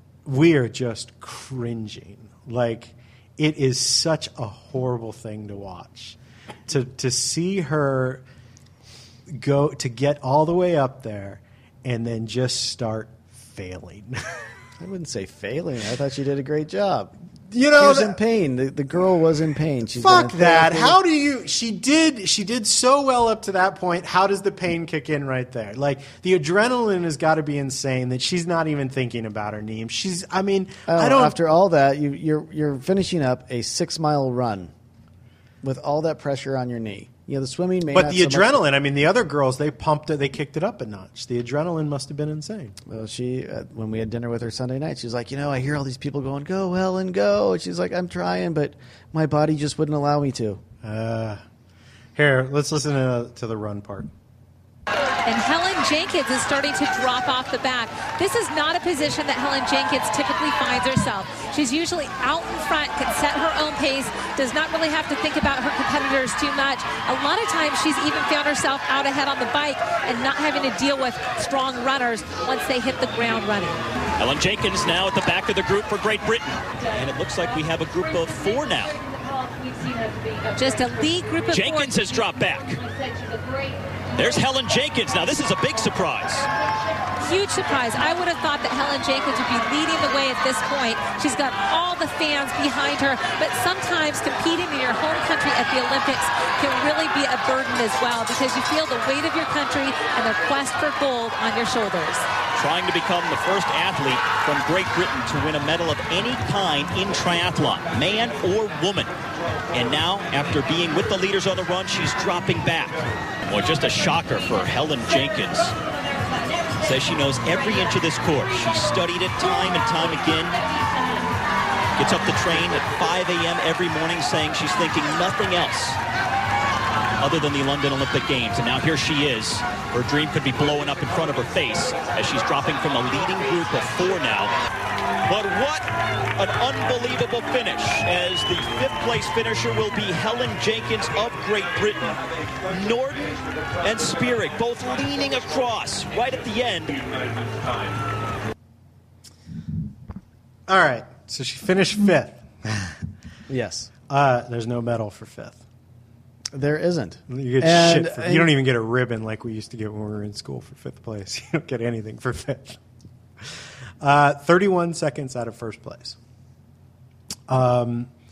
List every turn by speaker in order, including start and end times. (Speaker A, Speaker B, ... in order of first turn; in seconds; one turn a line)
Speaker A: 0.3-8.2
Speaker A: 9.3-14.4
Speaker B: 14.8-17.1
Speaker A: 17.5-18.2
Speaker B: 17.8-21.0
Speaker A: 20.0-31.4
Speaker B: 30.9-34.7
Speaker B: 35.6-38.6
Speaker A: 37.9-42.8
Speaker B: 42.9-50.6
Speaker A: 50.8-51.4
Speaker A: 52.1-54.1
Speaker C: 55.3-73.8
Speaker D: 74.2-79.0
Speaker C: 79.8-82.1
Speaker D: 81.5-82.8
Speaker C: 83.2-83.7
Speaker D: 84.2-86.5
Speaker C: 87.2-102.3
Speaker D: 102.5-109.1
Speaker D: 109.7-115.8
Speaker D: 116.8-120.6
Speaker D: 122.0-126.0
Speaker D: 127.2-134.5
Speaker D: 135.3-147.1
Speaker A: 150.7-153.0
Speaker B: 153.5-153.9
Speaker A: 154.1-155.6
Speaker B: 156.5-158.5
Speaker A: 157.3-162.8
Speaker A: 163.4-166.2
Speaker A: 167.5-168.1